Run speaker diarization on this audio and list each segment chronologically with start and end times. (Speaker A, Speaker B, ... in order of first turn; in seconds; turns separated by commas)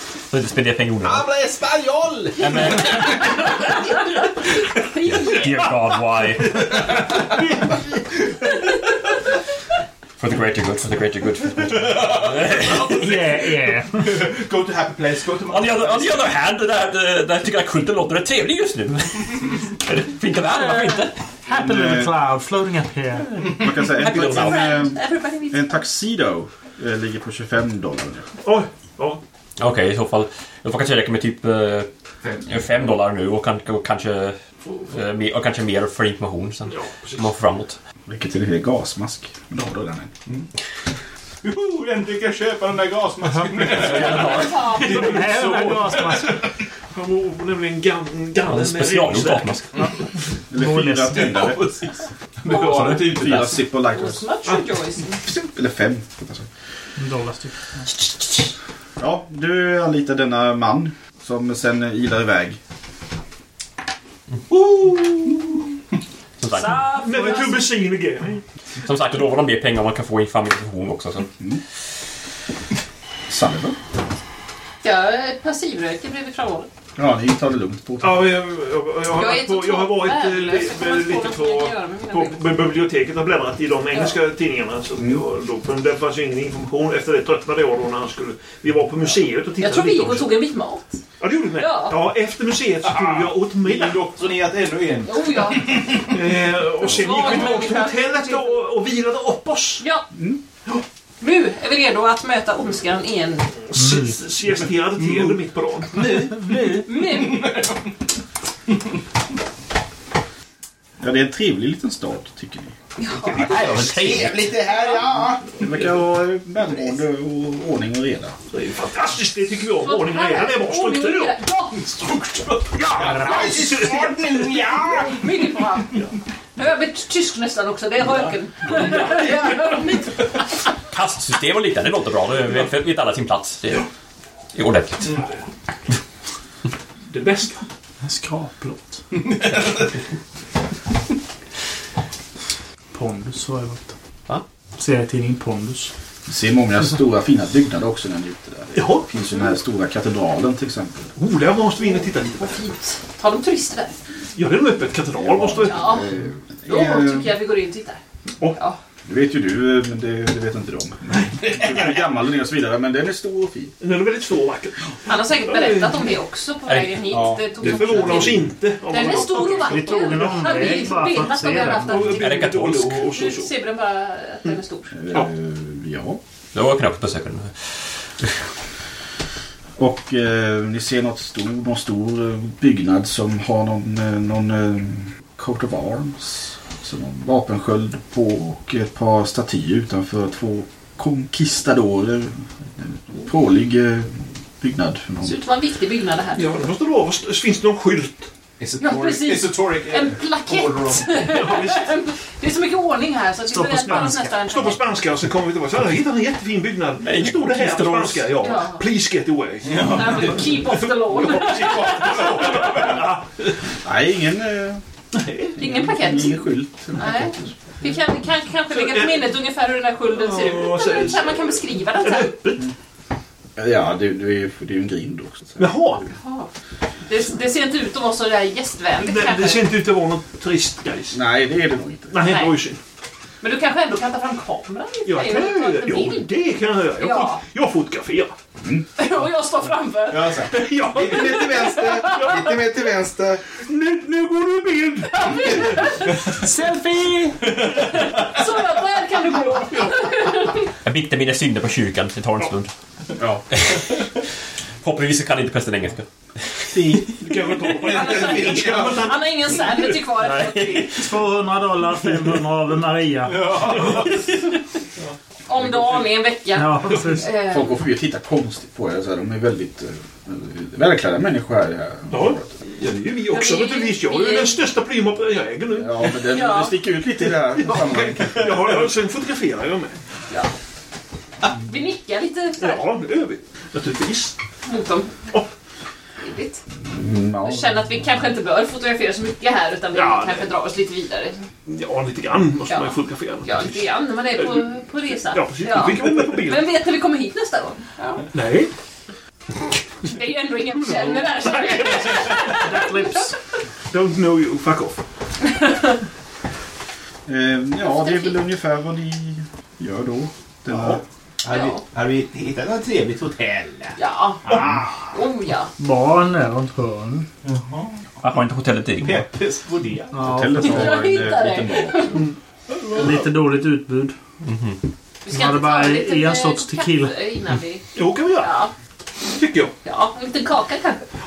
Speaker A: 0.3-1.3, Speaker B: 1.0-3.3, Speaker A: 2.4-3.6, Speaker C: 3.2-5.7, Speaker A: 5.0-7.0, Speaker B: 6.5-8.5, Speaker A: 10.2-13.1, Speaker B: 11.6-13.3, Speaker D: 13.0-14.1, Speaker B: 14.0-16.4, Speaker A: 15.5-21.1, Speaker D: 20.5-23.4, Speaker E: 21.5-22.2, Speaker E: 23.6-28.3, Speaker A: 23.8-24.8, Speaker C: 24.1-25.8, Speaker F: 28.4-29.2, Speaker A: 29.6-31.9, Speaker B: 32.2-32.6, Speaker A: 32.5-37.8, Speaker F: 36.7-37.3, Speaker E: 38.1-40.1, Speaker B: 41.4-46.3, Speaker D: 43.2-43.5, Speaker A: 43.7-44.6, Speaker C: 44.0-45.2, Speaker F: 44.8-46.3, Speaker D: 44.9-46.4, Speaker F: 46.9-49.8, Speaker A: 48.5-49.7, Speaker E: 50.5-51.6, Speaker D: 50.5-51.3, Speaker B: 51.1-53.7, Speaker C: 52.5-52.9, Speaker E: 53.1-54.2, Speaker C: 53.8-55.2, Speaker E: 55.2-56.5, Speaker D: 57.0-57.9, Speaker E: 59.0-62.6, Speaker B: 64.5-65.4, Speaker A: 66.4-66.9, Speaker C: 66.5-67.7, Speaker F: 66.8-68.4, Speaker A: 68.8-71.3, Speaker E: 73.3-73.8, Speaker C: 74.8-76.7, Speaker E: 77.0-78.4, Speaker F: 78.0-90.5, Speaker C: 79.1-82.5, Speaker C: 83.9-84.2, Speaker C: 89.6-91.0, Speaker F: 91.2-94.1, Speaker C: 91.6-92.0, Speaker B: 92.8-96.2, Speaker C: 95.0-95.8, Speaker F: 96.0-99.9, Speaker C: 96.8-98.6, Speaker C: 99.8-100.1, Speaker C: 101.2-103.5, Speaker F: 103.7-106.3, Speaker D: 103.8-104.2, Speaker B: 105.0-105.4, Speaker B: 105.9-108.0, Speaker C: 106.7-107.5, Speaker E: 111.0-112.8, Speaker C: 113.0-113.6, Speaker B: 113.2-115.5, Speaker E: 115.6-118.4, Speaker F: 118.5-121.4, Speaker C: 119.8-121.9, Speaker B: 122.4-125.6, Speaker F: 122.6-125.1, Speaker C: 125.2-125.9, Speaker C: 126.6-130.2, Speaker F: 128.8-129.8, Speaker A: 130.9-133.9, Speaker A: 134.5-135.2, Speaker F: 135.1-135.4, Speaker F: 137.1-137.6, Speaker D: 138.0-139.1, Speaker B: 139.2-139.8, Speaker D: 142.9-143.9, Speaker D: 144.8-145.9, Speaker E: 146.3-151.1, Speaker F: 148.7-149.1, Speaker F: 151.2-152.6, Speaker C: 152.0-153.9, Speaker F: 154.4-156.0, Speaker E: 155.2-157.3, Speaker C: 155.7-156.1, Speaker C: 156.6-158.0, Speaker E: 159.1-163.7, Speaker B: 161.4-162.0, Speaker F: 163.8-166.2, Speaker C: 165.1-172.5, Speaker A: 166.7-167.0, Speaker B: 167.1-168.1, Speaker F: 167.6-173.5, Speaker D: 169.4-171.9, Speaker A: 172.0-173.0, Speaker C: 173.1-174.9, Speaker E: 174.9-176.2, Speaker A: 176.5-177.8, Speaker E: 179.8-195.4, Speaker C: 195.2-196.5, Speaker F: 196.3-198.3, Speaker B: 198.6-201.2, Speaker C: 198.8-204.8, Speaker F: 201.2-202.0, Speaker D: 203.5-204.3, Speaker F: 203.6-213.6, Speaker A: 207.0-208.3, Speaker C: 208.4-208.8, Speaker B: 209.6-210.5, Speaker C: 209.8-212.4, Speaker B: 211.7-213.0, Speaker E: 213.8-214.8, Speaker F: 215.1-215.9, Speaker C: 215.6-216.4, Speaker E: 215.6-217.5, Speaker C: 217.0-222.4, Speaker F: 218.7-219.5, Speaker F: 220.1-222.7, Speaker E: 223.6-225.7, Speaker F: 225.6-226.1, Speaker C: 226.1-226.5, Speaker C: 227.1-229.6, Speaker F: 228.9-231.2, Speaker E: 231.1-232.1, Speaker F: 232.1-232.8, Speaker C: 232.2-232.5, Speaker C: 233.4-236.3, Speaker F: 235.1-238.3, Speaker C: 237.0-237.4, Speaker C: 239.0-240.3, Speaker B: 240.1-243.4, Speaker F: 240.4-242.5, Speaker C: 241.8-242.1, Speaker F: 243.6-245.8, Speaker C: 245.2-246.0, Speaker D: 246.4-247.4, Speaker C: 248.1-250.7, Speaker A: 250.8-252.7, Speaker E: 253.2-253.4, Speaker A: 253.5-254.0, Speaker A: 254.8-256.8, Speaker E: 256.7-257.2, Speaker F: 257.2-260.0, Speaker C: 257.9-261.0, Speaker B: 257.9-259.1, Speaker A: 260.4-260.8, Speaker D: 260.9-263.6, Speaker B: 263.3-264.3, Speaker F: 263.7-264.1, Speaker C: 265.5-267.8, Speaker F: 265.6-266.0, Speaker D: 266.6-267.3, Speaker E: 267.3-272.5, Speaker F: 272.1-276.2, Speaker C: 273.3-274.6, Speaker E: 275.7-278.9, Speaker C: 276.2-276.8, Speaker F: 277.5-280.0, Speaker C: 281.6-282.8, Speaker F: 282.6-284.4, Speaker C: 284.6-285.3, Speaker C: 286.2-286.6, Speaker E: 286.9-287.9, Speaker C: 287.4-291.4, Speaker F: 289.9-290.5, Speaker F: 291.7-296.8, Speaker C: 292.7-298.3, Speaker F: 298.3-298.7, Speaker C: 300.0-303.2, Speaker F: 300.6-302.7, Speaker D: 302.6-303.3, Speaker F: 303.9-305.0, Speaker C: 305.6-305.9, Speaker E: 307.3-311.0, Speaker C: 307.8-308.4, Speaker B: 310.7-315.0, Speaker C: 311.5-311.8, Speaker C: 314.0-315.7, Speaker D: 315.8-317.3, Speaker B: 317.4-318.3, Speaker A: 318.2-319.3, Speaker B: 319.0-320.4, Speaker D: 320.1-320.9, Speaker E: 320.2-322.2, Speaker C: 320.6-322.2, Speaker F: 322.1-323.3, Speaker D: 322.9-324.1, Speaker A: 324.4-324.8, Speaker C: 325.2-327.9, Speaker D: 325.3-327.2, Speaker F: 327.9-328.6, Speaker C: 328.4-328.7, Speaker F: 329.2-329.7, Speaker C: 329.8-331.0